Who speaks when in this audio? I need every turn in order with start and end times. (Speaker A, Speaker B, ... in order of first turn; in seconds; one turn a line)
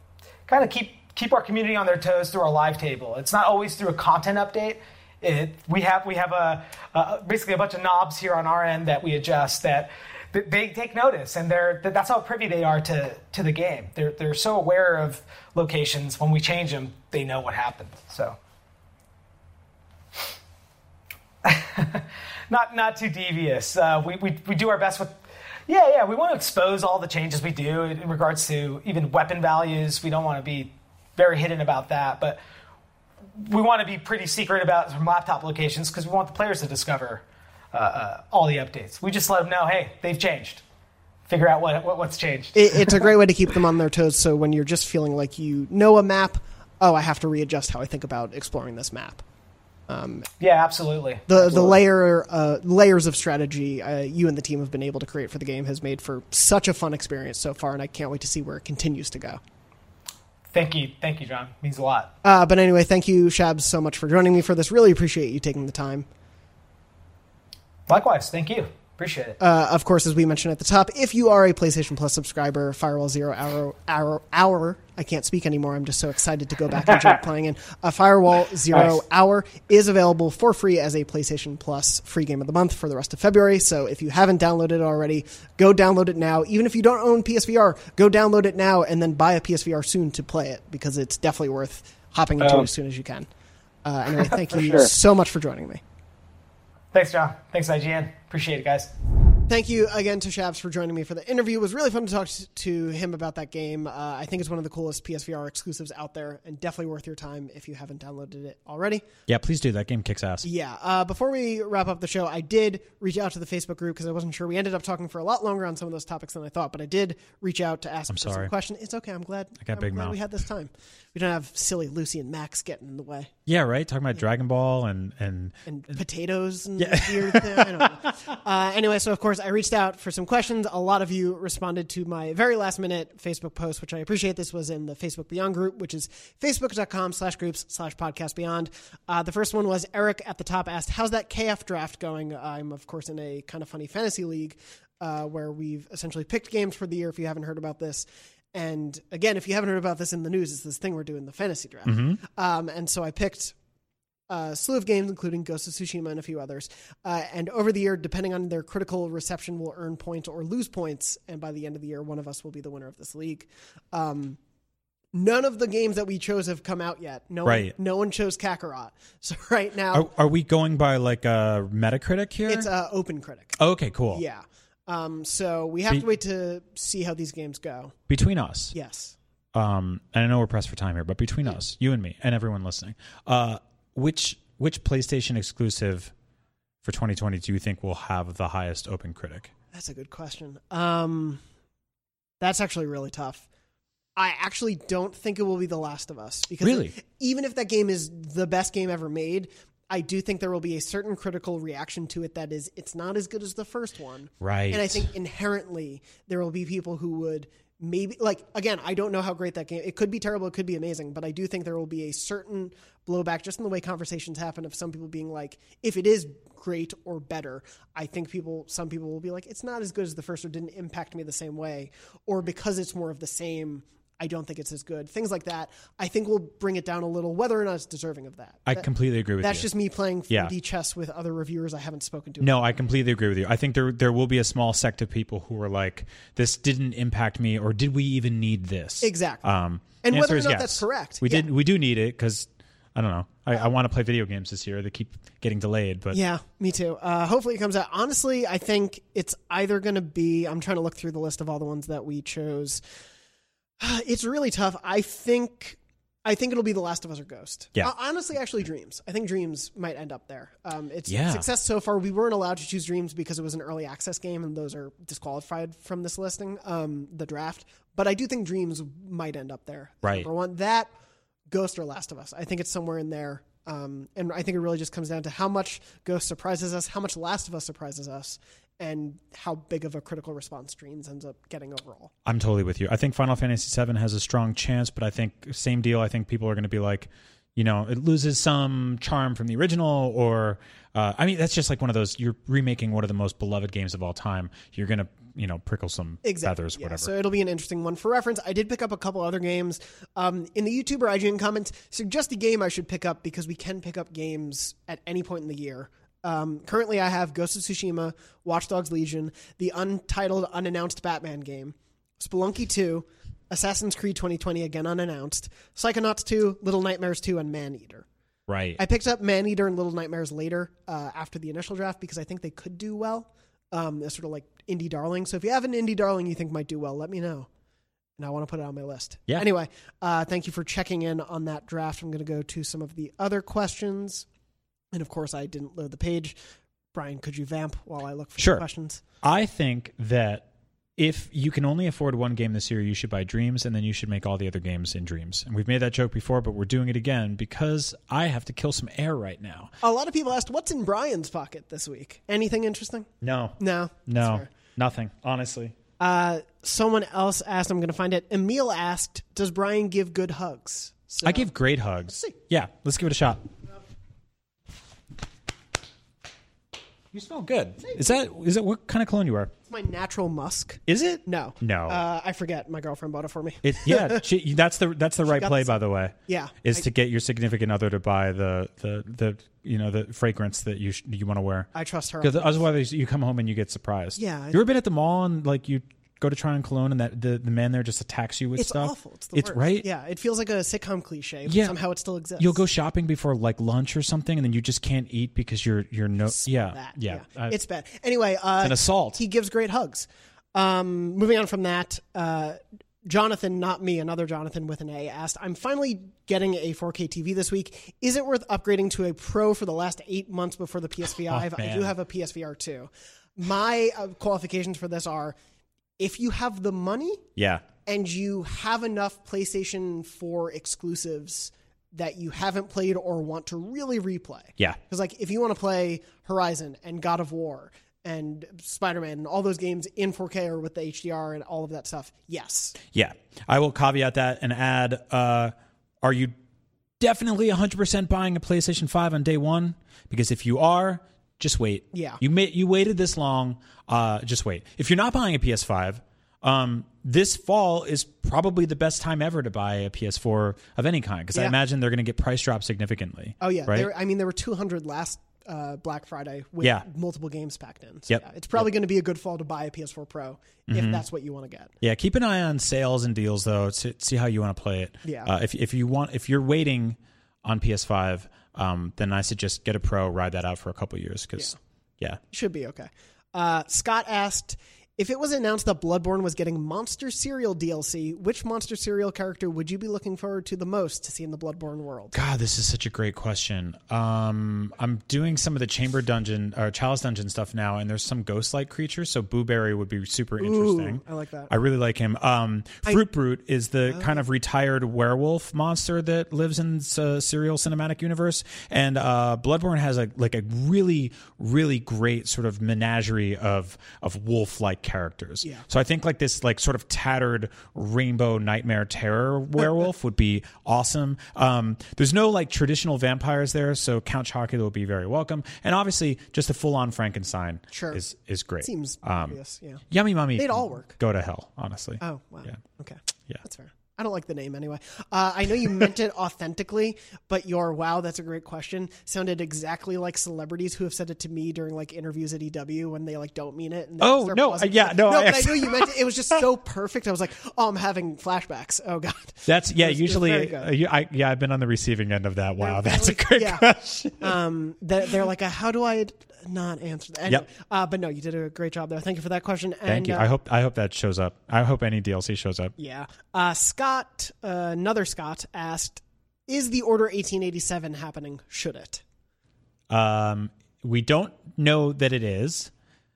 Speaker A: 0.5-18.4
Speaker A: 21.4-25.1
Speaker A: 25.7-32.4
Speaker A: 33.4-40.6
Speaker A: 41.3-43.0
Speaker B: 42.5-49.2
Speaker B: 49.9-50.3
Speaker A: 50.4-51.7
Speaker B: 51.3-59.4
Speaker A: 60.5-62.1
Speaker B: 62.2-66.1
Speaker A: 67.9-69.4
Speaker B: 69.4-93.3
Speaker B: 93.8-95.8
Speaker A: 94.5-94.9
Speaker A: 96.9-98.9
Speaker B: 99.5-109.0
Speaker C: 109.3-110.5
Speaker B: 110.4-123.3
Speaker C: 118.1-118.5
Speaker C: 119.6-120.2
Speaker C: 123.5-125.5
Speaker B: 125.7-153.6
Speaker C: 126.8-127.9
Speaker C: 151.8-152.2
Speaker B: 154.3-164.4
Speaker B: 165.1-170.1
Speaker C: 167.4-167.7
Speaker C: 169.9-172.7
Speaker B: 172.5-173.6
Speaker C: 173.6-174.2
Speaker B: 174.1-177.9
Speaker C: 178.1-178.7
Speaker B: 178.7-179.2
Speaker C: 179.5-186.1
Speaker C: 186.8-189.5
Speaker B: 189.7-191.4
Speaker B: 192.4-193.4
Speaker B: 194.2-228.9
Speaker C: 196.6-196.9
Speaker C: 204.4-205.1
Speaker C: 228.7-229.7
Speaker B: 229.4-232.6
Speaker C: 232.4-246.2
Speaker B: 239.0-239.4
Speaker B: 240.0-241.5
Speaker B: 246.1-252.8
Speaker B: 253.8-270.9
Speaker C: 261.1-261.4
Speaker B: 271.5-282.1
Speaker C: 282.2-297.1
Speaker B: 296.2-318.1
Speaker C: 318.5-318.8
Speaker B: 318.8-327.5
Speaker B: 328.2-334.3
Speaker B: 334.9-336.4
Speaker B: 336.9-339.0
Speaker C: 338.4-338.6
Speaker C: 339.2-340.4
Speaker C: 341.0-349.7
Speaker B: 349.8-354.5
Speaker C: 353.2-355.7
Speaker B: 356.0-361.5
Speaker C: 361.2-363.4
Speaker B: 362.1-362.3
Speaker C: 367.1-369.5
Speaker B: 367.8-368.2
Speaker B: 369.7-374.2
Speaker C: 370.9-372.0
Speaker C: 373.6-381.7
Speaker B: 375.2-376.9
Speaker B: 381.7-382.6
Speaker C: 382.2-389.9
Speaker B: 384.2-384.6
Speaker B: 388.6-392.6
Speaker C: 391.4-391.8
Speaker C: 392.4-397.5
Speaker B: 396.3-415.3
Speaker C: 398.6-399.2
Speaker C: 411.3-411.9
Speaker B: 416.0-417.2
Speaker C: 417.4-417.6
Speaker B: 417.9-432.8
Speaker C: 432.9-436.3
Speaker C: 437.0-453.9
Speaker B: 441.9-442.2
Speaker B: 453.4-461.7
Speaker C: 458.1-458.7
Speaker C: 460.7-461.0
Speaker C: 461.8-472.2
Speaker B: 465.0-465.3
Speaker B: 472.3-482.1
Speaker C: 482.1-519.4
Speaker B: 490.4-491.5
Speaker B: 493.9-494.2
Speaker B: 517.7-518.0
Speaker B: 518.6-519.8
Speaker C: 519.9-522.6
Speaker B: 520.4-521.0
Speaker B: 522.0-540.7
Speaker C: 534.0-536.3
Speaker C: 539.5-544.3
Speaker B: 542.6-550.3
Speaker C: 549.9-552.7
Speaker B: 552.8-559.0
Speaker C: 559.9-562.7